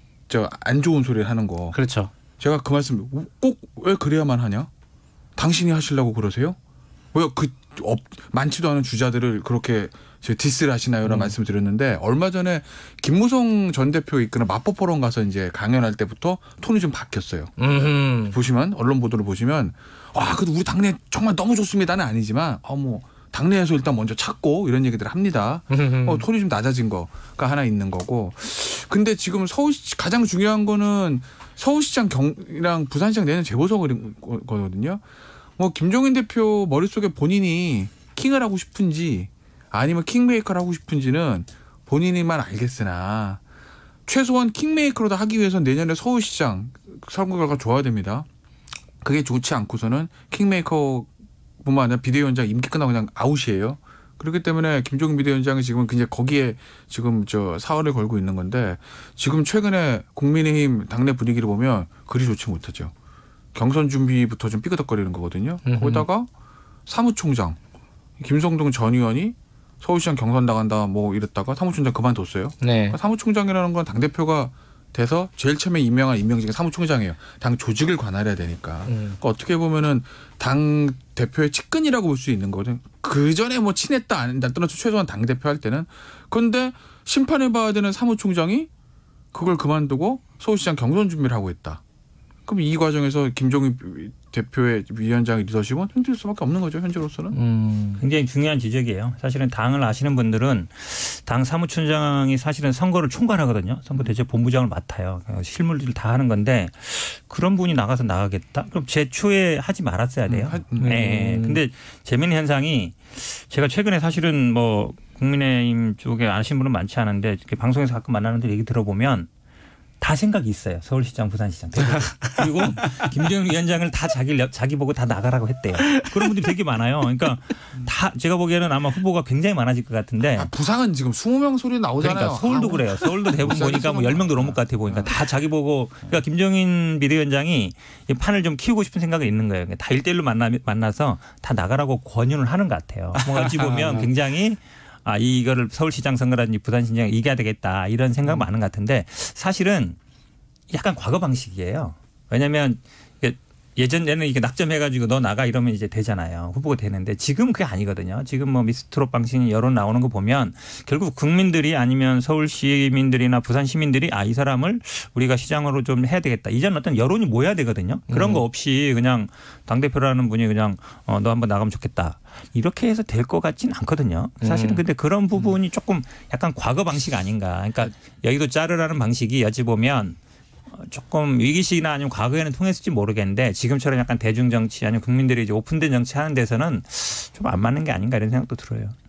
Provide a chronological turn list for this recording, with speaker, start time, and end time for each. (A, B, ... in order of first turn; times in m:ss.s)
0:00.3-0:01.8 A
0:01.7-0:02.1 B
0:02.4-0:04.7 A
0:05.4-0:06.6 A
0:07.1-0:17.5 A
0:11.0-0:11.4 B
0:17.6-0:18.4 B
0:18.3-0:35.0 A
0:25.7-0:26.3 B
0:35.6-0:43.4 A
0:44.1-0:48.3 A
0:49.0-0:51.1 A
0:51.6-1:02.9 A
1:03.5-1:06.3 A
1:05.6-1:06.1 B
1:06.9-1:07.6 A
1:08.2-1:28.7 A
1:12.6-1:13.0 B
1:18.9-1:19.2 B
1:29.3-1:31.8 A
1:32.5-1:37.4 A
1:37.3-1:38.0 B
1:38.0-1:59.3 C
1:50.3-1:51.0 A
1:50.8-1:51.6 B
2:00.0-2:10.5 C
2:10.4-2:15.1 A
2:12.0-2:30.0 C
2:23.2-2:24.1 B
2:30.7-3:00.2 C
2:48.1-2:48.4 B
2:54.4-2:54.8 B
3:00.7-3:08.9 C